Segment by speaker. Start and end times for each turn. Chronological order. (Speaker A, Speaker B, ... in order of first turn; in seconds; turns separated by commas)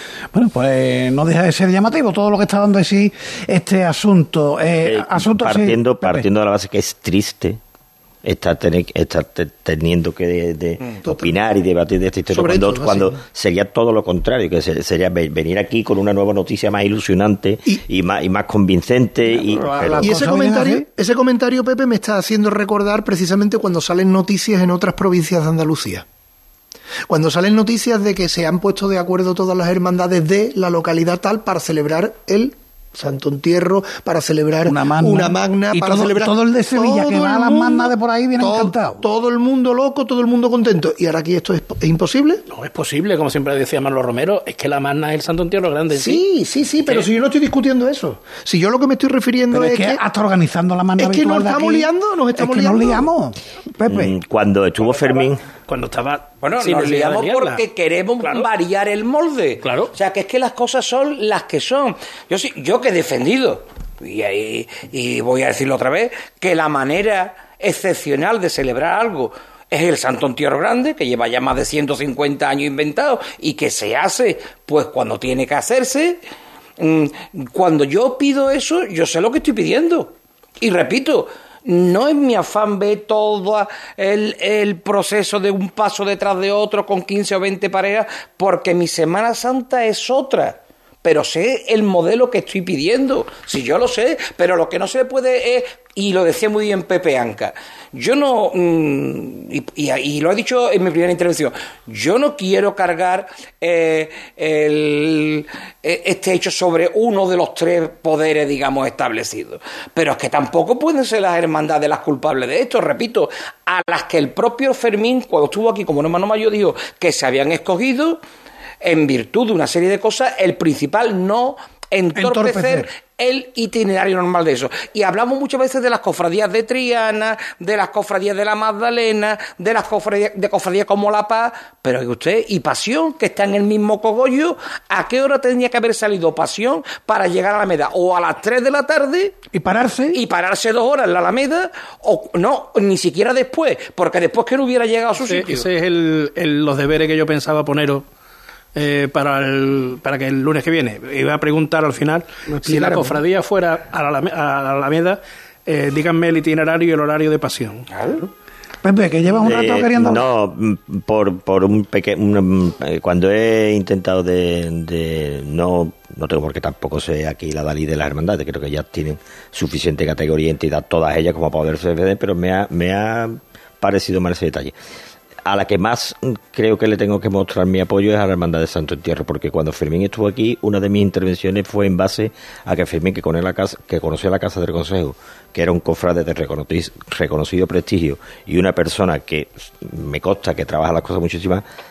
Speaker A: 0.3-6.3, Speaker B: 4.8-7.6, Speaker B: 8.2-20.1, Speaker C: 12.3-13.2, Speaker A: 19.3-20.9, Speaker C: 20.0-26.1, Speaker C: 27.1-42.4, Speaker A: 34.7-39.0, Speaker D: 42.5-46.2, Speaker C: 45.9-50.0, Speaker A: 49.5-54.1, Speaker C: 51.0-53.1, Speaker B: 53.9-55.4, Speaker D: 54.8-57.6, Speaker E: 56.4-76.2, Speaker D: 58.2-58.5, Speaker D: 59.6-59.9, Speaker E: 76.8-118.2, Speaker E: 118.8-139.4, Speaker A: 122.2-122.9, Speaker A: 139.5-140.2, Speaker E: 140.1-145.7, Speaker D: 145.3-148.1, Speaker D: 148.8-157.9, Speaker A: 152.7-153.2, Speaker E: 157.9-158.2, Speaker A: 158.8-160.3, Speaker B: 159.4-174.7, Speaker B: 175.5-191.6